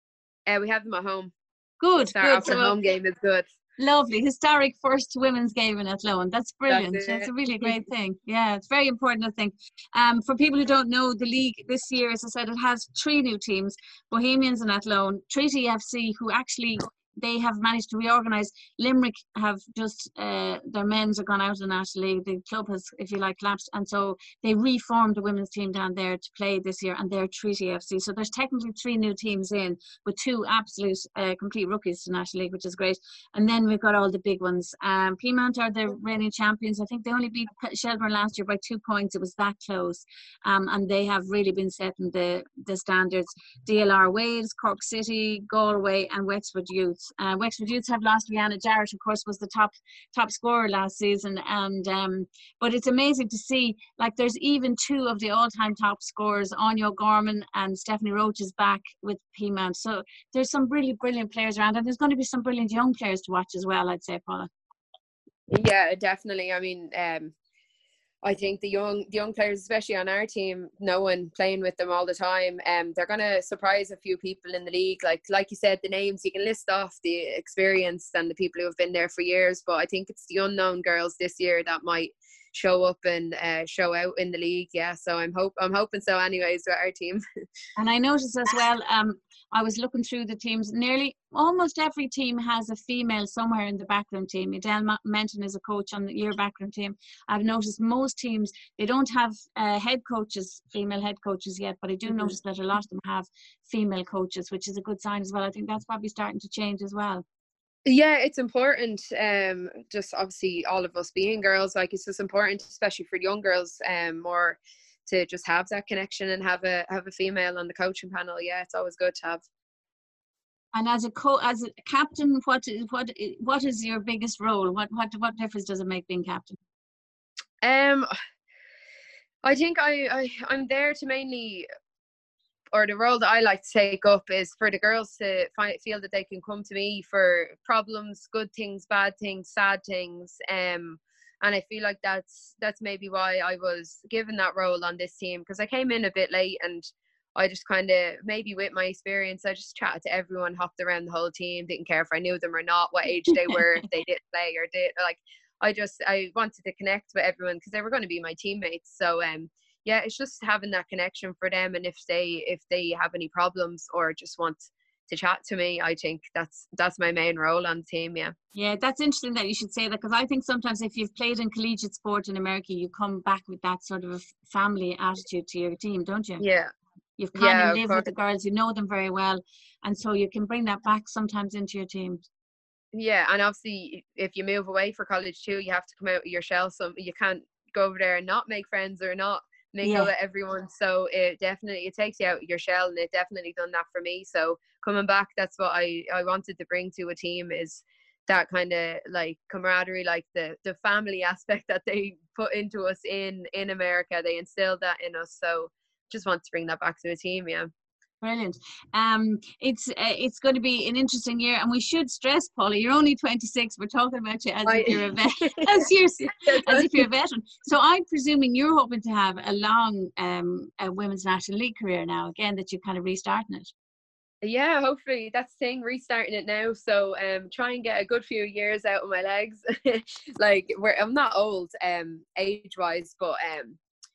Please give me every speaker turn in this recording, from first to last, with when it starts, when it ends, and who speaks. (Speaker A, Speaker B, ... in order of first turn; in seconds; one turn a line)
Speaker A: 0.5-1.3
Speaker B: 1.8-2.8
Speaker A: 2.0-3.5
Speaker B: 3.8-64.5
Speaker A: 6.7-7.8
Speaker A: 65.5-67.3
Speaker A: 68.2-87.2
Speaker B: 87.8-107.2
Speaker A: 102.1-102.3
Speaker A: 107.8-119.5
Speaker B: 120.7-126.6
Speaker A: 127.6-128.1
Speaker A: 129.4-131.7
Speaker A: 132.7-168.3
Speaker B: 168.6-176.5
Speaker A: 176.4-176.7
Speaker B: 177.2-182.2
Speaker A: 177.3-178.1
Speaker A: 182.9-207.7
Speaker B: 189.8-190.1
Speaker B: 208.2-223.7
Speaker A: 214.7-216.9
Speaker A: 224.4-233.8